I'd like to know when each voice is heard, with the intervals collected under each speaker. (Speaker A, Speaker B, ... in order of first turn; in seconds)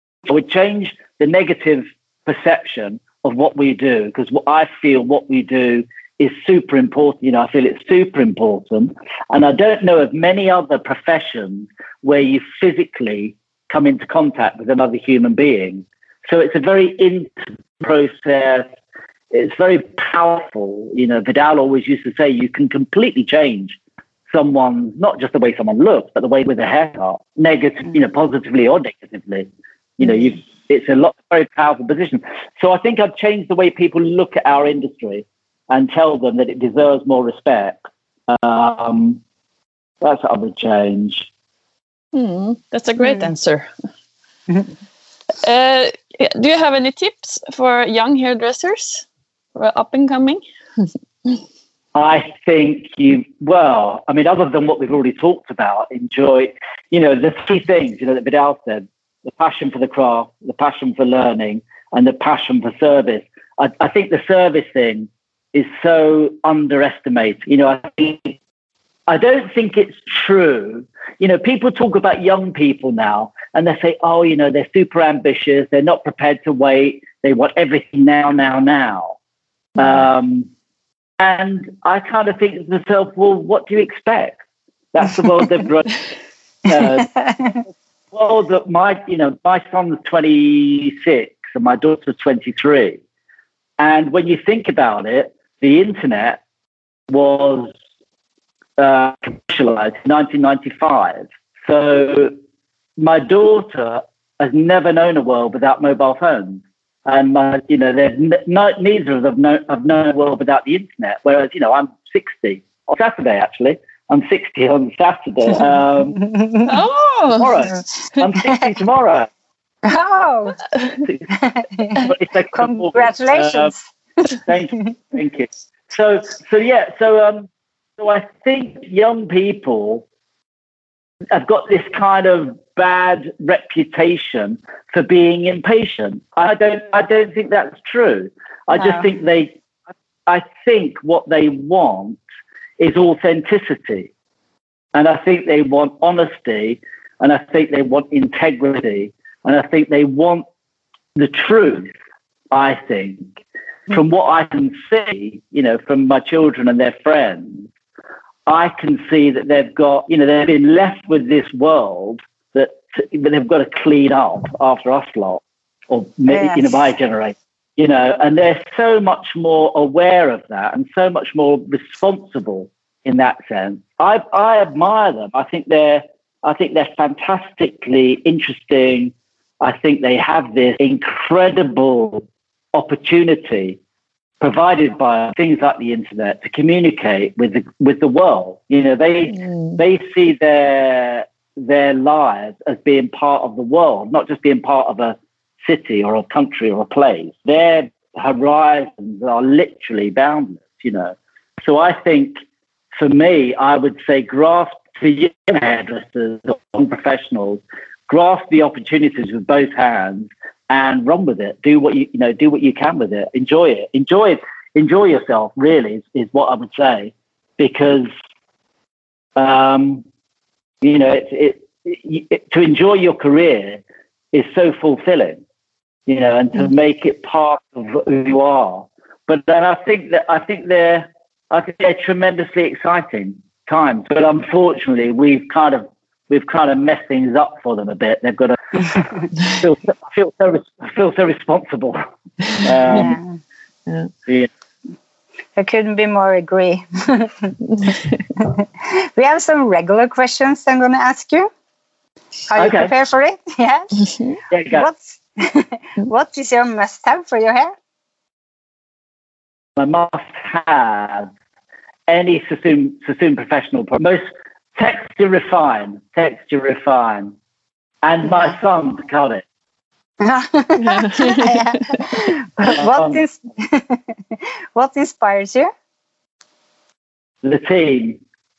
Speaker A: 0.3-18.7, 19.3-23.8, 24.3-39.2, 40.0-41.3, 52.0-68.4, 69.1-79.2, 79.8-80.5, 81.2-84.4, 84.9-86.1, 86.6-93.0, 93.8-96.4, 97.1-97.7, 98.8-102.3, 103.0-116.3, 117.4-119.3, 122.0-123.7, 124.5-130.1, 131.3-139.6, 140.3-142.2, 142.8-144.1, 144.9-150.4, 151.2-151.9, 152.5-153.3, 153.9-157.7, 158.5-183.8, 184.4-202.3, 202.9-218.1, 219.4-220.0, 220.8-223.8, 224.3-225.4, 226.1-242.0, 242.5-243.2, 252.6-252.9, 254.5-254.9, 259.8-261.3, 262.1-264.2, 264.8-267.4, 268.0-269.4, 272.7-273.2, 277.4-278.2
Speaker B: 42.1-43.7, 45.4-50.4, 116.6-117.5, 270.8-271.6
Speaker C: 43.0-43.3, 86.8-87.6, 116.2-116.7, 119.8-120.6, 121.3-123.8, 138.7-139.1, 166.3-166.8, 242.9-243.3, 245.6-251.5, 252.5-254.0, 254.7-257.7, 270.2-275.7